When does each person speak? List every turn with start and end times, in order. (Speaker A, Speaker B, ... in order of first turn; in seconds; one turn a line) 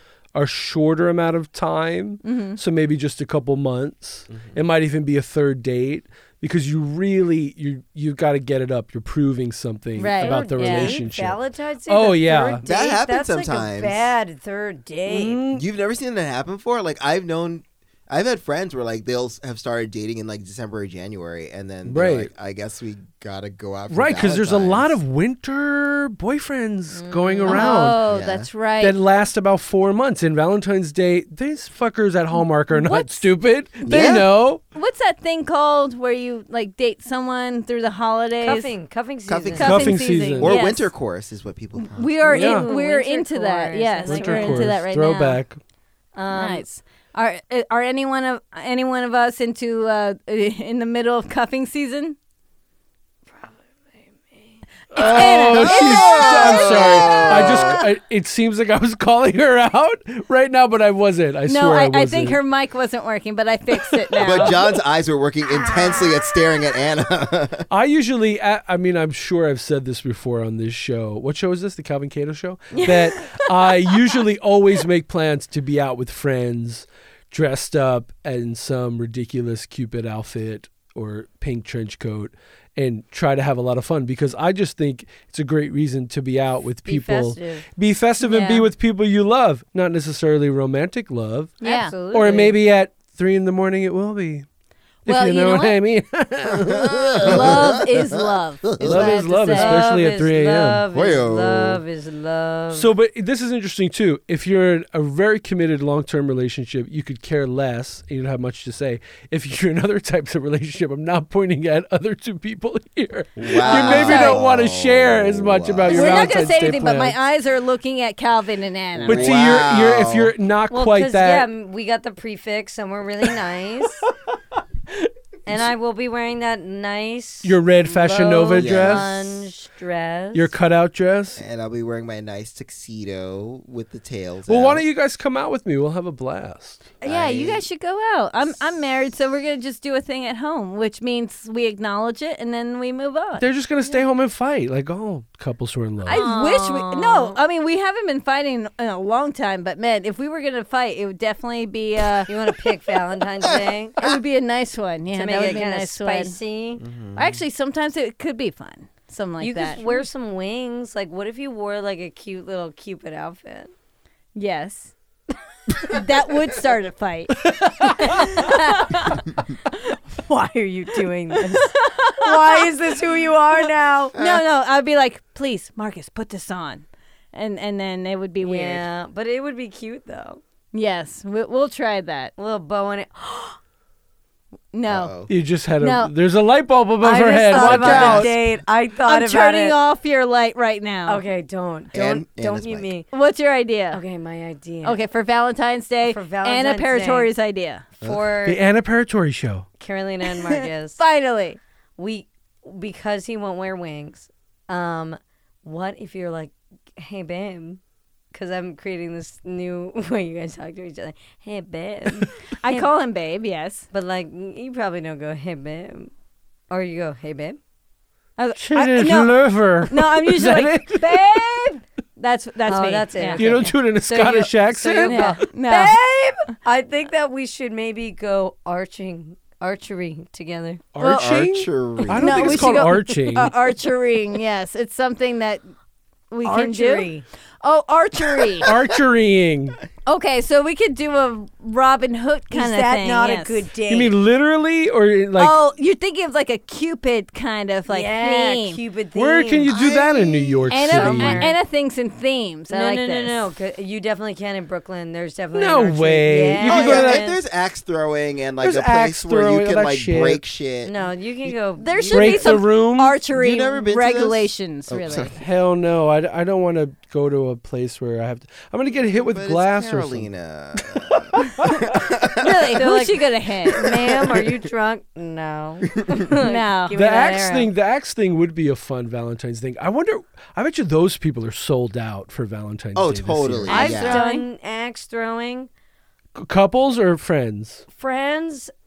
Speaker A: 0.3-11.4
Speaker B: 2.2-2.6
Speaker B: 10.0-11.0
Speaker C: 10.2-15.4
Speaker A: 11.9-12.6
Speaker D: 12.6-14.0
Speaker A: 15.1-15.7
Speaker D: 15.5-25.0
Speaker A: 21.9-22.3
Speaker A: 23.9-28.0
Speaker C: 26.9-27.8
Speaker B: 27.5-29.0
Speaker D: 28.1-28.5
Speaker A: 28.8-34.6
Speaker B: 32.3-34.1
Speaker D: 33.9-34.3
Speaker B: 34.7-38.7
Speaker C: 38.4-39.7
Speaker D: 39.3-42.2
Speaker B: 39.6-40.9
Speaker A: 39.6-40.6
Speaker B: 41.8-45.3
Speaker C: 42.2-45.4
Speaker A: 42.3-42.7
Speaker A: 44.1-45.6
Speaker C: 46.2-46.6
Speaker B: 46.3-52.2
Speaker C: 53.3-54.6
Speaker A: 54.9-62.4
Speaker B: 54.9-57.0
Speaker D: 55.0-57.8
Speaker C: 57.0-57.6
Speaker B: 61.5-64.6
Speaker A: 64.2-64.5
Speaker D: 64.2-67.7
Speaker C: 65.6-66.0
Speaker A: 67.7-94.5
Speaker C: 72.8-73.4
Speaker C: 86.8-87.7
Speaker B: 88.2-88.7
Speaker B: 91.6-92.0
Speaker C: 91.6-92.6
Speaker B: 95.1-95.8
Speaker A: 95.1-97.6
Speaker D: 96.5-99.1
Speaker B: 97.2-99.9
Speaker A: 98.8-100.8
Speaker C: 99.2-102.9
Speaker D: 100.9-101.8
Speaker A: 102.7-117.2
Speaker D: 113.4-116.4
Speaker C: 113.6-114.2
Speaker B: 113.8-114.4
Speaker B: 115.9-119.5
Speaker D: 119.0-120.3
Speaker A: 119.0-121.5
Speaker C: 120.7-124.0
Speaker C: 125.5-130.5
Speaker A: 127.4-129.1
Speaker D: 128.5-129.4
Speaker A: 130.3-131.4
Speaker D: 131.3-134.8
Speaker A: 134.5-136.9
Speaker D: 137.0-137.7
Speaker B: 137.0-144.0
Speaker A: 143.4-146.2
Speaker B: 146.1-152.3
Speaker C: 146.1-147.4
Speaker C: 152.3-154.1
Speaker B: 154.0-156.4
Speaker C: 155.1-156.8
Speaker D: 156.8-157.4
Speaker B: 157.2-160.0
Speaker C: 159.4-163.7
Speaker B: 164.3-164.9
Speaker B: 165.8-169.2
Speaker C: 167.9-169.2
Speaker C: 170.1-174.2
Speaker B: 171.5-172.6
Speaker B: 174.1-178.8
Speaker C: 178.4-180.4
Speaker B: 180.7-182.3
Speaker C: 182.4-183.6
Speaker B: 184.7-185.1
Speaker D: 184.9-185.3
Speaker A: 185.3-188.3
Speaker B: 185.8-186.1
Speaker C: 187.0-189.8
Speaker B: 187.5-188.4
Speaker B: 189.1-191.2
Speaker C: 191.1-193.1
Speaker D: 191.9-192.9
Speaker B: 193.1-194.0
Speaker C: 193.9-195.0
Speaker B: 194.8-197.9
Speaker C: 196.0-197.3
Speaker C: 198.0-198.6
Speaker A: 198.4-199.7
Speaker C: 199.8-201.0
Speaker B: 201.0-201.6
Speaker C: 202.0-207.8
Speaker C: 208.3-212.9
Speaker B: 212.5-213.9
Speaker C: 213.9-216.1
Speaker C: 216.7-217.6
Speaker B: 218.4-223.5
Speaker A: 218.6-221.4
Speaker C: 222.7-230.8
Speaker A: 223.4-225.2
Speaker B: 225.0-226.0
Speaker A: 231.0-233.5
Speaker B: 231.0-231.3
Speaker D: 231.0-232.8
Speaker B: 232.2-235.6
Speaker B: 236.3-237.1
Speaker C: 236.4-237.2
Speaker B: 237.6-238.7
Speaker A: 238.6-239.8
Speaker B: 240.1-243.6
Speaker C: 242.5-244.2
Speaker A: 243.9-245.6
Speaker B: 245.4-248.8
Speaker C: 247.9-251.6
Speaker A: 249.2-251.5
Speaker D: 249.7-250.6
Speaker B: 250.7-253.4
Speaker C: 252.7-257.4
Speaker A: 255.5-257.2
Speaker D: 256.6-260.9
Speaker A: 258.6-260.4
Speaker C: 260.8-262.6
Speaker B: 261.8-265.3
Speaker A: 262.1-263.2
Speaker D: 263.3-265.3
Speaker A: 265.4-270.3
Speaker D: 269.1-272.6
Speaker A: 270.8-272.0
Speaker B: 272.4-273.9
Speaker C: 272.4-277.7
Speaker D: 273.9-274.5
Speaker B: 276.4-276.9
Speaker A: 276.9-283.9
Speaker D: 282.9-284.2
Speaker B: 283.7-284.4
Speaker C: 283.7-285.7
Speaker A: 286.4-287.8
Speaker C: 287.9-288.7